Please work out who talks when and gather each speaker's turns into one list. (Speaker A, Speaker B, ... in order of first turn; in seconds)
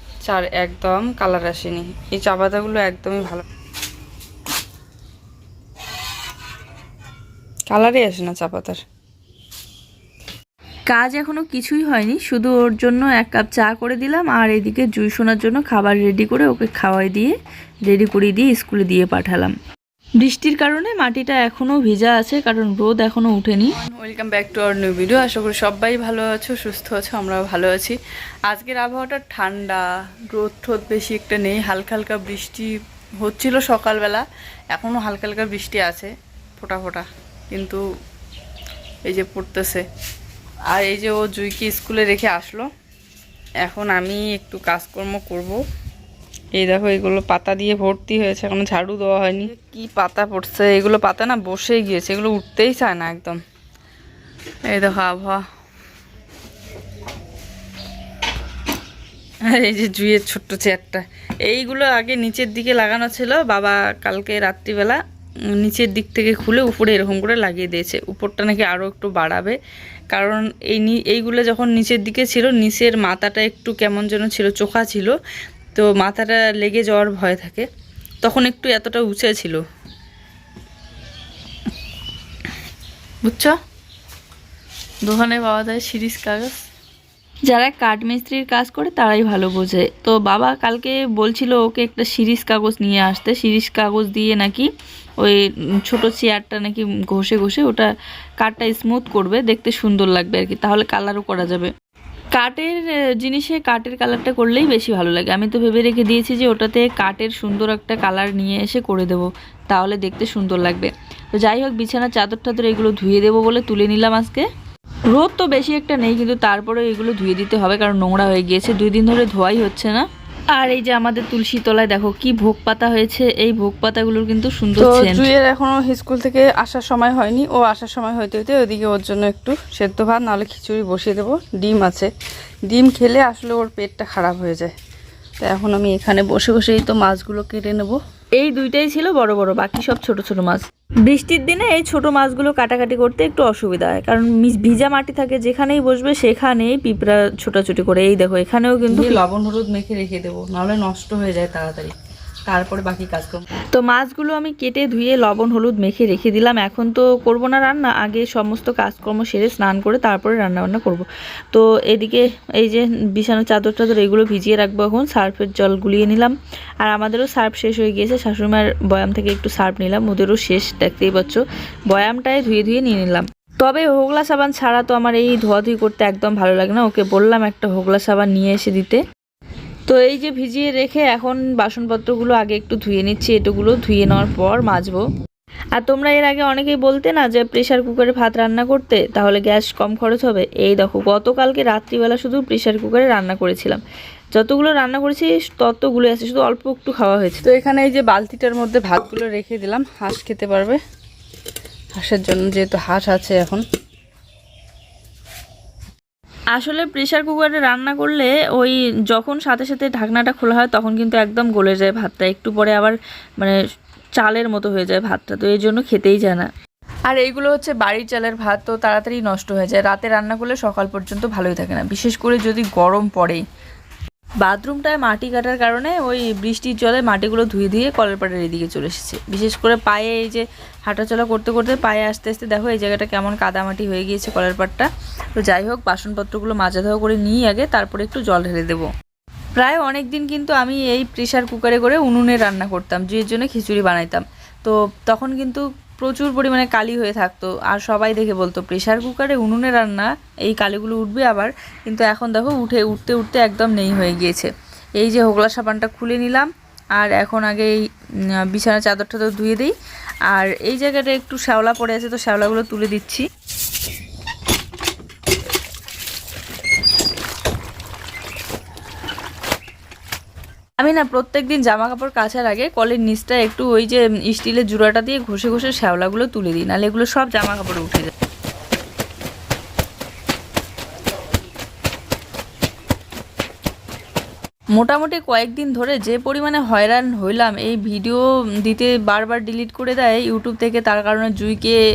Speaker A: 0.2-3.4, 7.7-8.8, 23.7-37.8, 39.0-39.8, 40.7-42.7, 43.6-45.6, 46.5-53.4, 54.7-55.4, 59.4-65.0, 65.6-69.0, 75.8-76.1, 76.9-77.6, 78.2-78.5, 124.8-132.1, 132.7-134.7, 135.4-138.0, 148.9-151.9, 152.4-153.4, 197.4-200.8, 201.9-203.6
Speaker B: 10.9-17.3, 17.9-19.5, 20.2-23.8, 63.2-63.6, 66.4-69.6, 70.1-75.1, 75.9-77.0, 78.3-79.6, 83.2-83.5, 85.0-86.6, 87.5-94.7, 95.2-101.7, 102.3-114.4, 115.1-125.3, 138.4-149.2, 153.7-179.0, 179.9-185.0, 185.8-193.8, 194.3-197.4, 206.5-213.6, 214.2-216.5, 217.1-223.4, 224.4-238.9, 239.6-257.8, 258.5-259.7, 260.3-263.2, 270.8-278.1, 284.8-291.8